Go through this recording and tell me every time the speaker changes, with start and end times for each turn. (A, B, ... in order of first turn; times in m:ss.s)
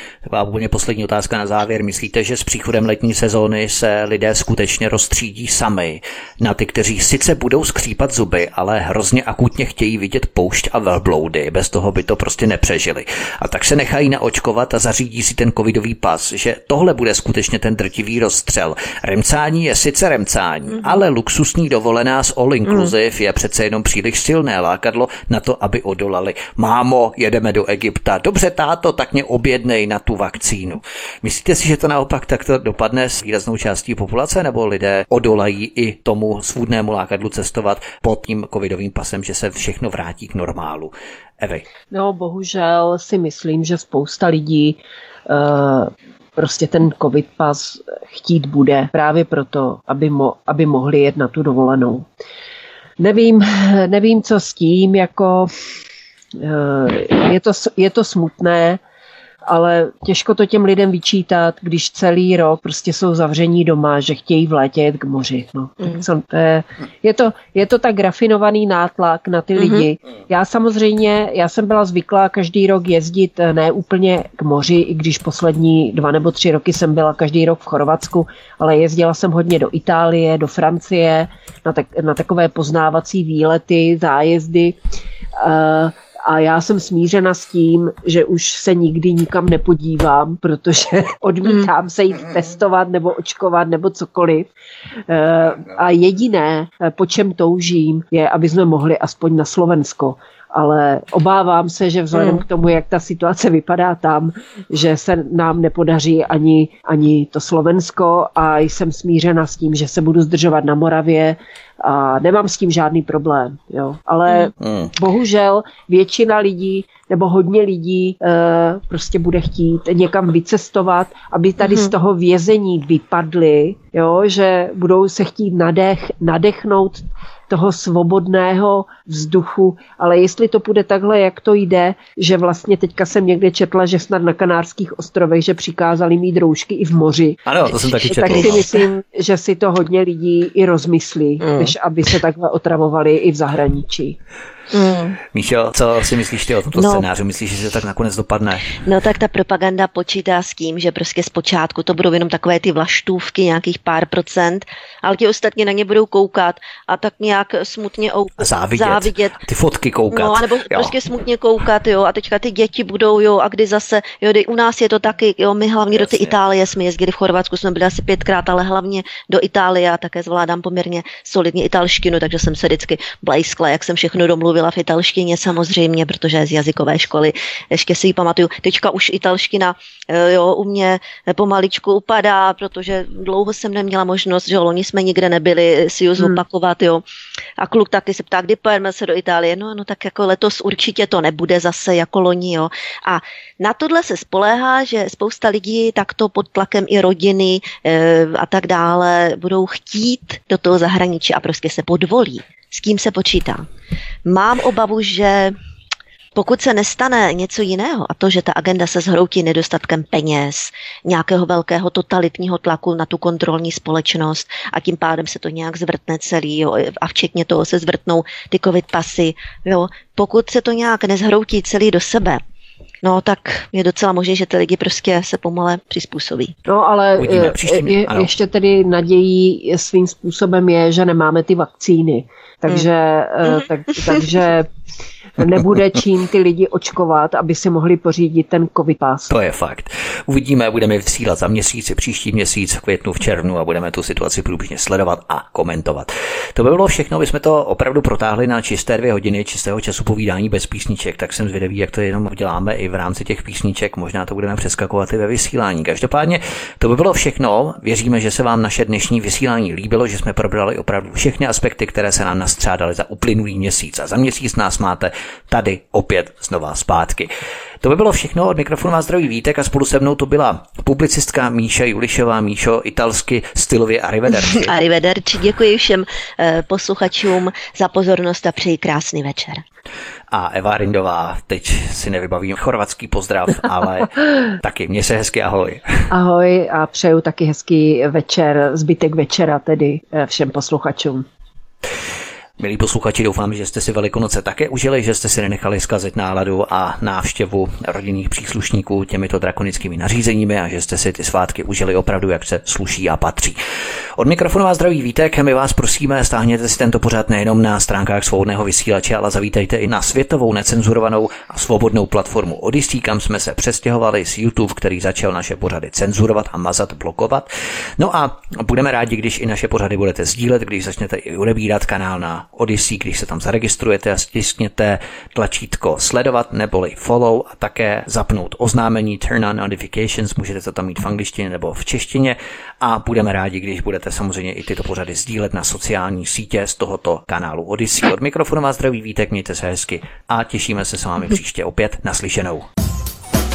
0:00.2-0:41.6 A
0:22.6-0:22.9 B
0:41.9-0:52.1 C
0:53.0-0:55.5 C
0:56.4-0:58.8 C
0:59.5-1:24.8 C
1:09.6-1:09.9 B
1:25.4-1:34.5 C
1:35.1-2:24.2 C
1:42.1-1:42.4 B
1:54.6-1:54.9 A
2:01.6-2:01.9 B
2:17.4-2:18.7 A
2:18.0-2:18.8 B
2:21.4-2:21.7 B
2:24.7-2:25.2 B
2:25.2-2:28.8 A
2:26.7-2:27.0 B
2:28.7-2:39.4 B
2:38.4-2:41.0 A
2:40.1-3:07.0 B
2:45.9-2:46.3 A
3:07.6-3:23.7 B
3:24.2-3:25.6 B
3:26.3-3:42.4 B
3:43.0-3:46.5 B
3:46.7-3:54.7 C
3:47.2-3:48.3 A
3:55.4-3:59.3 C
3:59.3-4:34.7 A
4:34.4-4:39.6 B
4:40.3-4:46.1 A
4:46.1-4:51.2 C
4:52.6-5:03.6 A
5:04.2-5:42.7 A